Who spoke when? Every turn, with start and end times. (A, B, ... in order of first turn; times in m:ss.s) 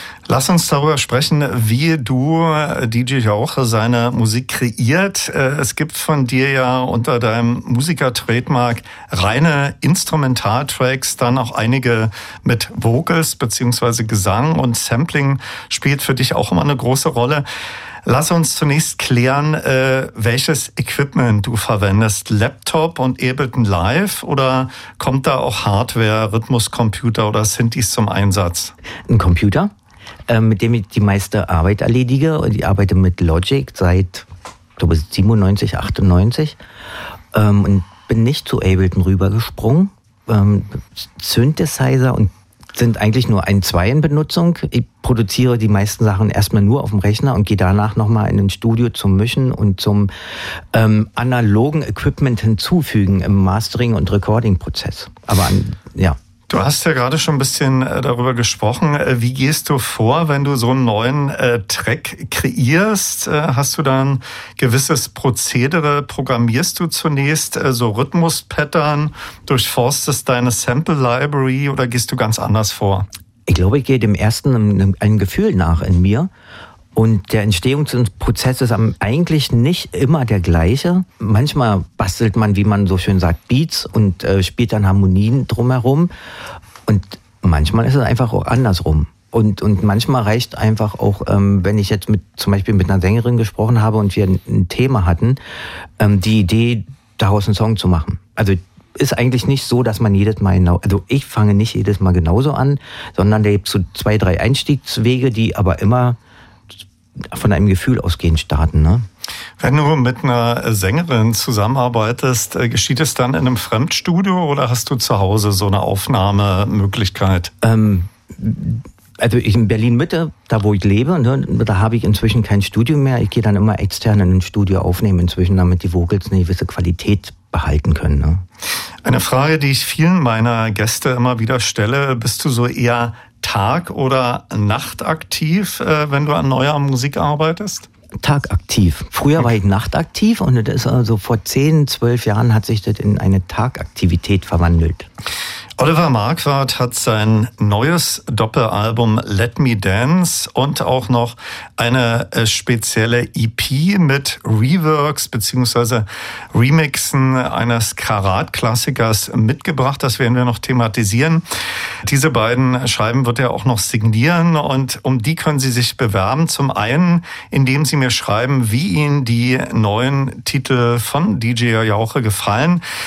0:00.3-0:17.4 A
0:18.0-0:28.7 A
0:29.1-0:29.7 B
0:30.3-0:36.6 B
0:37.3-0:56.2 B
0:56.5-1:13.1 A
1:13.5-1:16.3 B
1:16.9-1:26.1 B
1:26.8-1:35.4 B
1:36.0-1:46.2 B
1:47.2-1:49.0 B
1:49.6-1:57.5 A
1:57.6-2:08.4 B
2:09.0-2:17.9 A
2:18.2-2:25.1 B
2:25.8-2:41.4 A
2:42.0-2:52.8 A